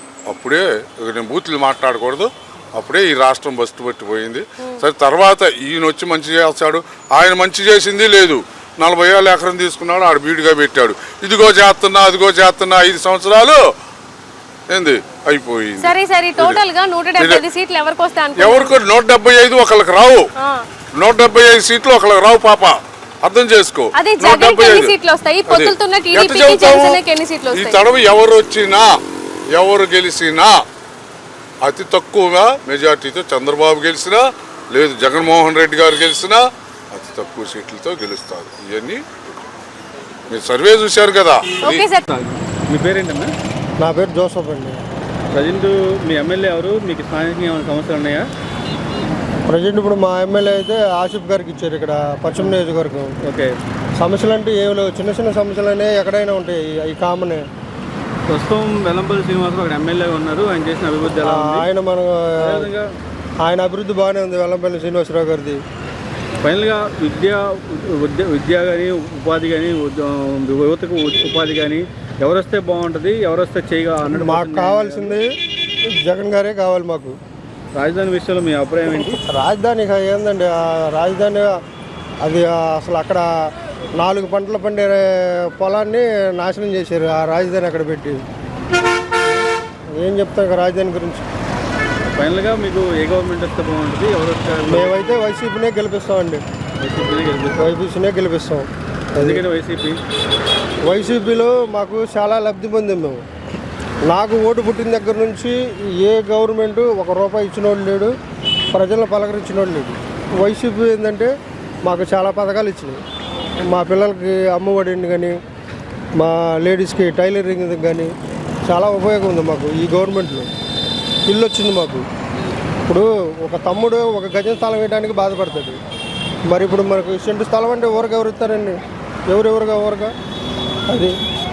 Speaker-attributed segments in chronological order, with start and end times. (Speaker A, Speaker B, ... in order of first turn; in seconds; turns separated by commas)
Speaker A: 0.3-13.6, Speaker A: 14.7-16.6, Speaker B: 15.8-18.7, Speaker A: 17.2-17.4, Speaker A: 18.4-20.3, Speaker B: 20.4-20.6, Speaker A: 20.9-24.9, Speaker B: 23.9-27.8, Speaker A: 25.5-27.0, Speaker A: 27.5-28.9, Speaker A: 29.5-30.6, Speaker A: 31.6-39.0, Speaker A: 40.3-41.5, Speaker B: 41.6-42.0, Speaker C: 41.7-43.3, Speaker D: 43.8-44.8, Speaker C: 45.3-48.3, Speaker D: 49.5-53.1, Speaker C: 53.2-53.5, Speaker D: 54.0-57.4, Speaker C: 58.3-61.6, Speaker D: 61.2-62.7, Speaker C: 62.4-62.9, Speaker D: 63.4-65.6, Speaker C: 66.4-75.2, Speaker D: 74.1-75.3, Speaker D: 76.0-77.2, Speaker C: 77.7-79.2, Speaker D: 79.2-81.5, Speaker D: 82.2-83.2, Speaker D: 84.0-88.2, Speaker D: 90.0-91.2, Speaker C: 92.1-95.0, Speaker D: 94.7-96.4, Speaker C: 96.8-97.8, Speaker D: 97.6-99.4, Speaker C: 99.2-100.0, Speaker D: 100.8-103.2, Speaker D: 104.0-108.1, Speaker D: 108.7-111.3, Speaker D: 111.8-113.0, Speaker D: 113.6-115.3, Speaker D: 116.2-118.1, Speaker D: 118.7-120.5, Speaker D: 121.2-122.0, Speaker D: 122.8-125.8, Speaker D: 126.5-128.8, Speaker D: 129.3-130.1, Speaker D: 130.9-131.1